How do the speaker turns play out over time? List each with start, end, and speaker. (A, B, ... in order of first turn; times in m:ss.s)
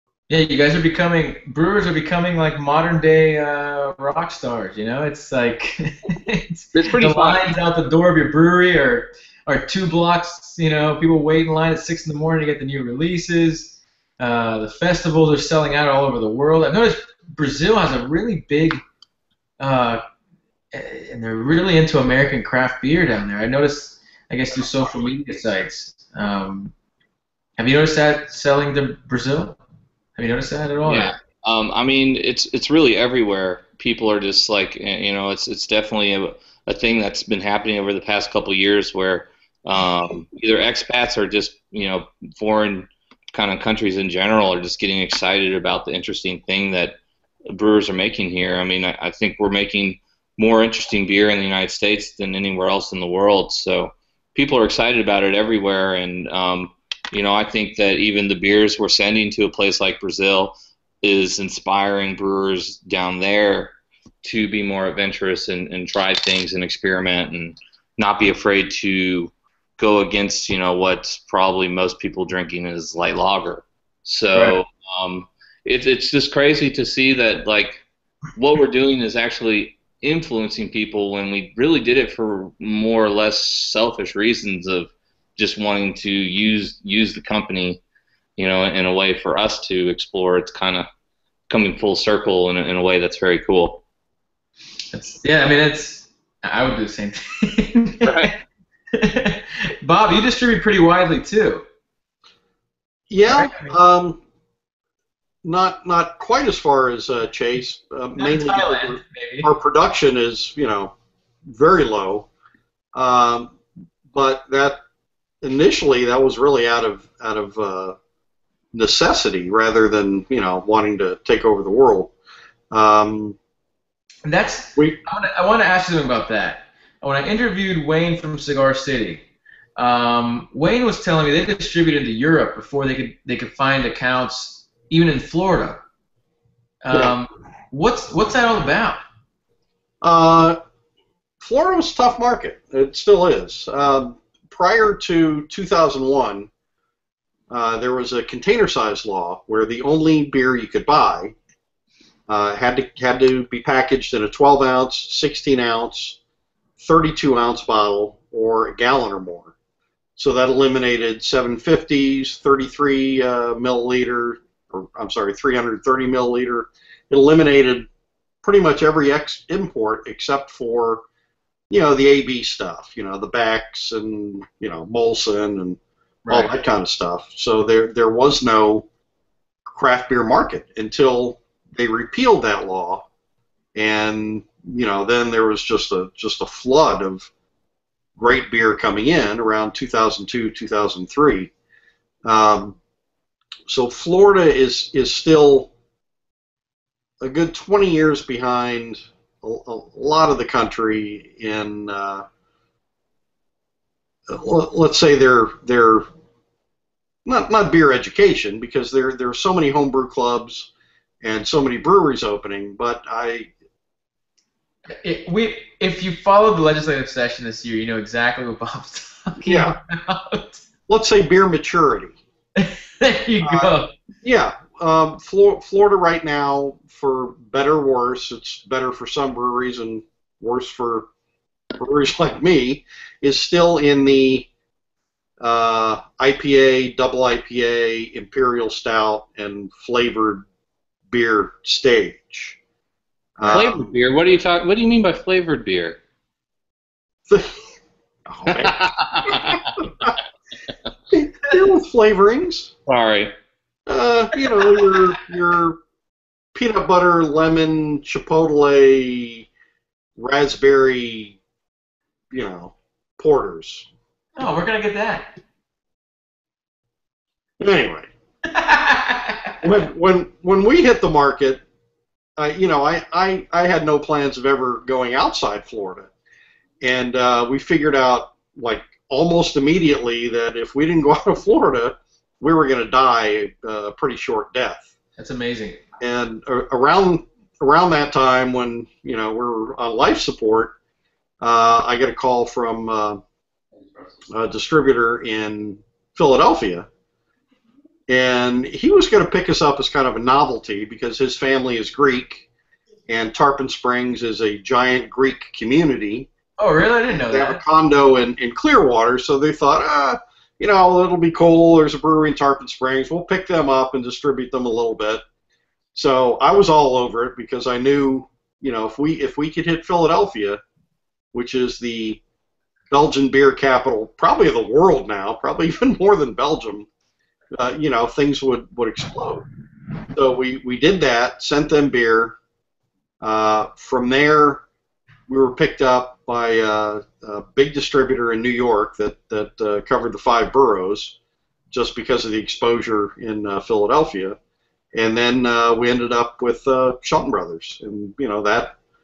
0:00.3-0:18.8 A
0:06.7-0:07.5 B
0:19.6-0:20.0 A
0:20.7-0:26.7 A
0:27.6-0:29.6 A
0:30.2-0:31.1 A
0:30.8-0:47.0 B
0:47.5-1:17.8 B
1:18.4-1:27.8 B
1:28.4-1:30.9 B
1:31.5-1:33.8 B
1:34.9-1:38.3 A
1:38.0-1:38.3 B
1:38.9-1:41.6 A
1:43.1-1:44.2 C
1:43.3-1:43.7 A
1:45.4-1:50.9 C
1:48.2-1:49.5 A
1:51.4-1:52.3 C
1:52.9-1:53.5 C
1:54.1-1:54.8 C
1:55.4-1:58.0 C
1:58.7-2:02.1 C
2:02.7-2:03.4 C
2:04.2-2:09.2 A
2:09.8-2:15.8 A
2:16.8-2:19.0 A
2:20.0-2:20.6 C
2:21.4-2:26.5 C
2:27.5-2:31.3 C
2:32.3-2:36.2 C
2:36.8-2:39.5 C
2:40.2-2:47.9 C
2:48.4-2:51.0 C
2:51.7-2:58.8 C
2:56.2-2:56.6 A
2:59.7-3:03.0 C
3:03.7-3:07.3 C
3:08.2-3:11.5 C
3:12.2-3:12.8 C
3:13.7-3:15.7 C
3:17.2-3:22.2 C
3:24.3-3:26.0 C
3:27.2-3:30.7 C
3:31.2-3:33.5 C
3:35.0-3:40.6 A
3:39.4-3:39.8 C
3:40.9-3:42.2 C
3:42.6-3:43.9 A
3:43.4-3:43.7 C
3:44.2-3:51.1 C
3:51.8-3:54.5 C
3:55.4-4:00.4 C
4:01.1-4:02.6 C
4:03.4-4:03.9 C
4:03.4-4:06.0 B
4:07.3-4:07.6 C
4:08.3-4:10.1 C
4:08.5-4:09.8 B
4:11.1-4:12.7 C
4:12.8-4:13.3 B
4:13.9-4:15.8 C
4:16.5-4:19.5 C
4:20.2-4:21.4 C
4:22.3-4:23.9 C
4:24.4-4:25.3 A
4:27.6-4:28.1 C
4:28.4-4:29.6 A
4:29.6-4:31.6 C
4:32.4-4:36.1 C
4:36.8-4:44.9 C
4:45.2-4:45.8 A
4:46.0-4:50.7 C
4:51.4-4:53.2 C
4:54.3-4:56.9 C
4:58.1-5:02.4 C
5:03.1-5:06.3 C
5:06.6-5:07.6 A
5:07.3-5:15.2 C
5:15.9-5:20.6 C
5:21.3-5:22.2 C
5:22.9-5:26.9 C
5:27.5-5:29.5 C
5:30.1-5:32.4 C
5:33.2-5:34.6 C
5:35.3-5:41.2 C
5:41.7-5:44.4 C
5:44.9-5:48.8 C